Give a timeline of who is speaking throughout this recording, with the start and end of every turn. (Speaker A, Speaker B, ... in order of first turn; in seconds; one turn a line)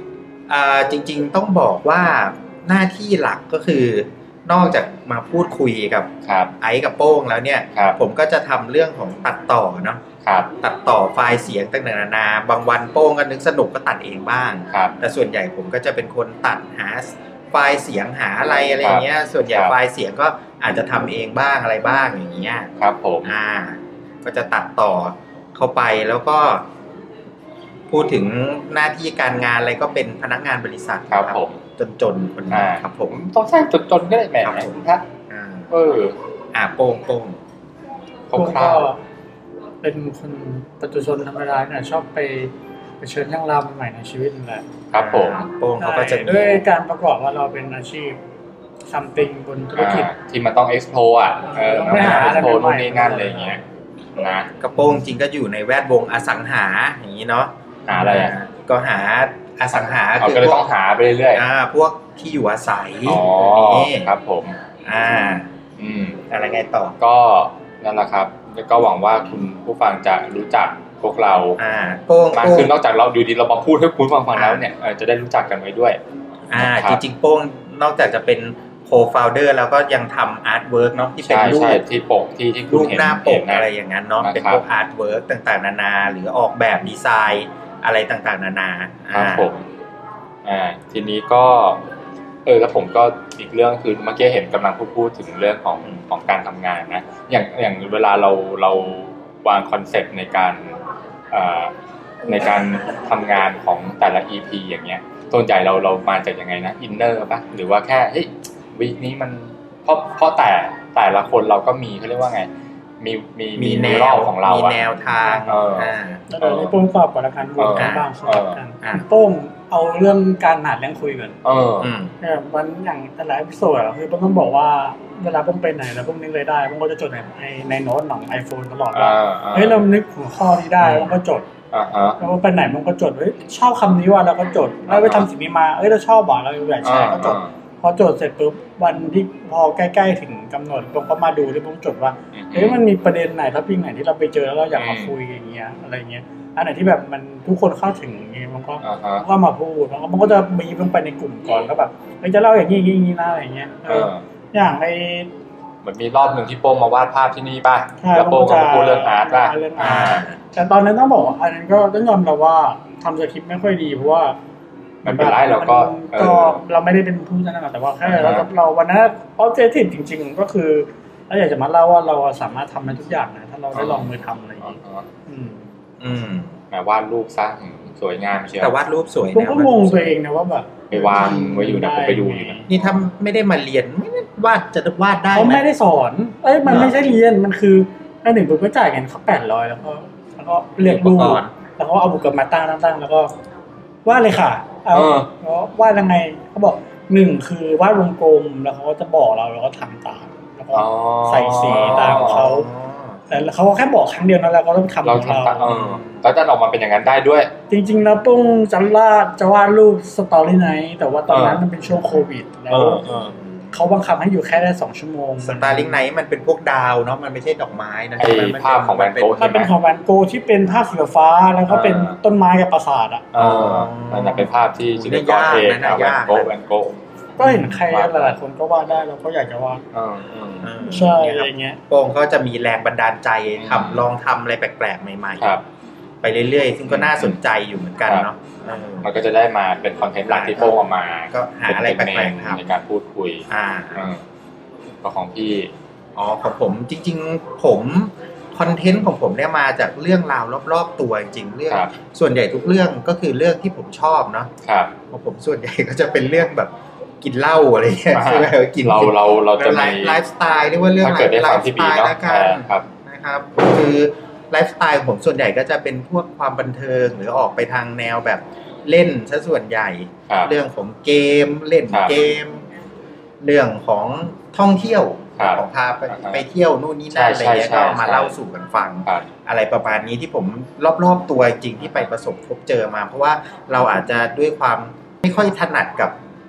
Speaker A: 0.5-10.0
Speaker B: 6.2-6.5
Speaker B: 10.2-10.5
Speaker A: 10.6-22.7
Speaker B: 18.8-19.7
Speaker B: 22.8-23.3
Speaker A: 23.2-26.7
Speaker A: 27.9-33.2
Speaker B: 31.1-31.6
Speaker B: 32.5-35.0
Speaker A: 34.4-35.7
Speaker B: 35.7-36.1
Speaker A: 36.5-37.4
Speaker B: 38.3-38.9
Speaker C: 38.3-39.0
Speaker C: 39.8-44.7
Speaker B: 44.9-45.5
Speaker A: 44.9-46.6
Speaker C: 45.8-48.2
Speaker C: 48.9-50.1
Speaker B: 49.8-53.6
Speaker C: 51.5-53.5
Speaker B: 54.1-54.5
Speaker A: 54.6-60.7
Speaker B: 57.9-58.4
Speaker B: 60.2-61.4
Speaker A: 61.3-64.1
Speaker B: 63.1-64.6
Speaker A: 64.8-65.5
Speaker B: 65.8-66.2
Speaker A: 66.3-67.0
Speaker B: 67.0-71.6
Speaker A: 71.6-72.7
Speaker B: 72.3-76.0
Speaker A: 74.3-74.6
Speaker A: 76.5-81.8
Speaker B: 76.5-77.0
Speaker B: 81.2-83.7
Speaker A: 82.7-89.5
Speaker B: 84.2-84.6
Speaker B: 89.1-89.7
Speaker B: 90.4-91.8
Speaker B: 92.5-101.7
Speaker B: 102.3-112.5
Speaker B: 113.0-114.9
Speaker A: 113.6-116.2
Speaker B: 115.4-116.8
Speaker C: 116.3-121.4
Speaker B: 117.6-118.6
Speaker A: 117.8-118.1
Speaker B: 121.4-121.9
Speaker A: 121.8-122.1
Speaker C: 122.2-131.5
Speaker B: 128.9-129.8
Speaker B: 130.8-131.1
Speaker B: 131.7-132.2
Speaker C: 132.2-155.3
Speaker B: 134.9-135.3
Speaker B: 136.8-137.6
Speaker B: 142.3-142.8
Speaker B: 144.8-145.1
Speaker B: 148.8-149.2
Speaker B: 153.9-154.2
Speaker B: 155.8-160.2
Speaker C: 158.0-164.4
Speaker A: 159.8-160.4
Speaker B: 165.1-166.6
Speaker C: 165.1-175.7
Speaker B: 168.0-168.5
Speaker B: 173.7-175.1
Speaker A: 176.0-176.6
Speaker B: 176.7-178.7
Speaker A: 178.6-180.1
Speaker C: 179.3-182.7
Speaker B: 180.9-182.6
Speaker A: 182.7-185.6
Speaker C: 185.3-193.3
Speaker A: 186.7-186.9
Speaker A: 190.8-191.5
Speaker B: 190.9-191.4
Speaker C: 194.1-202.7
Speaker B: 194.9-195.3
Speaker B: 200.7-202.5
Speaker A: 201.7-203.3
Speaker C: 203.3-205.7
Speaker B: 205.0-207.5
Speaker A: 205.7-206.2
Speaker C: 207.7-213.0
Speaker B: 211.3-211.6
Speaker B: 212.7-213.3
Speaker C: 213.7-216.0
Speaker A: 215.4-219.4
Speaker B: 218.2-219.7
Speaker C: 219.4-223.3
Speaker B: 221.7-222.2
Speaker B: 223.3-228.4
Speaker A: 223.4-226.5
Speaker C: 227.4-229.8
Speaker A: 227.4-227.8
Speaker B: 229.9-230.7
Speaker A: 230.6-235.5
Speaker C: 230.8-231.8
Speaker B: 233.6-234.1
Speaker A: 236.2-239.1
Speaker B: 236.9-237.4
Speaker B: 239.0-244.2
Speaker A: 240.3-242.6
Speaker A: 243.5-244.1
Speaker B: 245.0-245.7
Speaker A: 246.2-254.5
Speaker B: 254.6-254.9
Speaker A: 255.1-272.6
Speaker B: 258.1-260.2
Speaker B: 261.0-262.9
Speaker A: 273.4-286.2
Speaker B: 275.4-276.4
Speaker B: 277.1-278.4